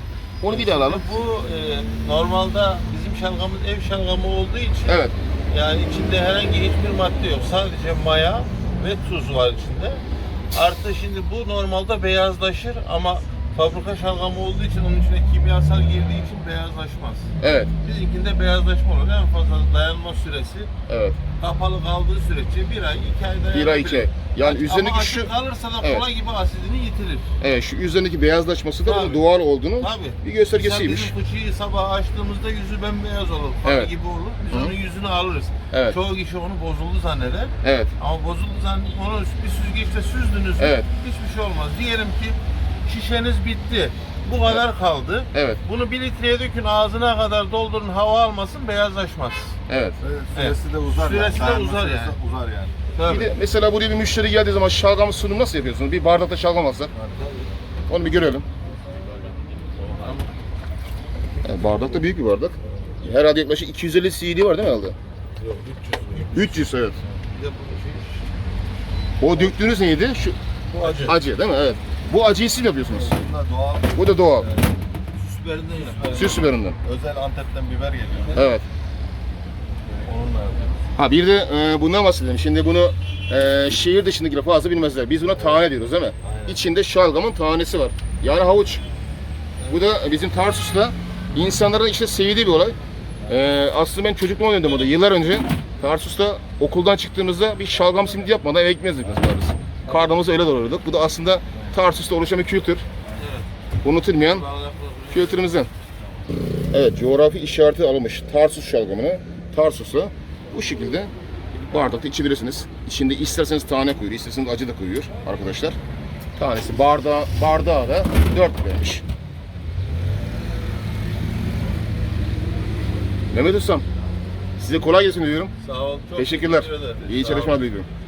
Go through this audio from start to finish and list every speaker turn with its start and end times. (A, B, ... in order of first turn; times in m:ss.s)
0:00.4-0:01.1 A
0:00.4-0:20.7 B
0:04.9-0:05.1 A
0:17.4-0:17.7 A
0:20.9-0:21.2 A
0:21.4-0:27.3 B
0:23.5-0:26.0 A
0:27.4-0:31.1 A
0:28.8-0:49.6 B
0:33.6-0:33.9 A
0:35.7-0:36.0 A
0:37.6-0:37.9 A
0:40.6-0:40.9 A
0:45.3-0:45.6 A
0:49.7-0:50.0 A
0:50.0-0:52.8 C
0:50.3-0:52.2 B
0:53.0-0:53.3 B
0:53.0-0:56.9 A
0:56.9-0:57.4 C
0:57.9-0:58.5 A
0:59.8-1:00.3 B
1:01.4-1:05.0 A
1:05.4-1:06.6 B
1:06.3-1:07.0 A
1:07.3-1:08.3 B
1:09.2-1:13.2 A
1:10.7-1:11.2 B
1:12.9-1:14.7 C
1:14.0-1:14.5 A
1:15.2-1:16.4 B
1:15.7-1:18.5 C
1:16.1-1:16.8 A
1:18.3-1:18.6 A
1:20.0-1:20.9 C
1:21.0-1:28.8 A
1:25.3-1:25.7 C
1:26.2-1:26.6 C
1:29.7-1:32.8 A
1:33.3-1:42.8 A
1:43.0-1:43.3 C
1:43.2-1:43.5 B
1:43.8-1:44.5 A
1:44.2-1:45.6 B
1:45.1-1:45.7 A
1:46.7-1:51.1 A
1:51.7-1:55.8 A
1:56.4-1:59.0 A
2:03.3-2:03.8 A
2:04.6-2:05.5 A
2:05.6-2:07.6 B
2:06.2-2:07.9 A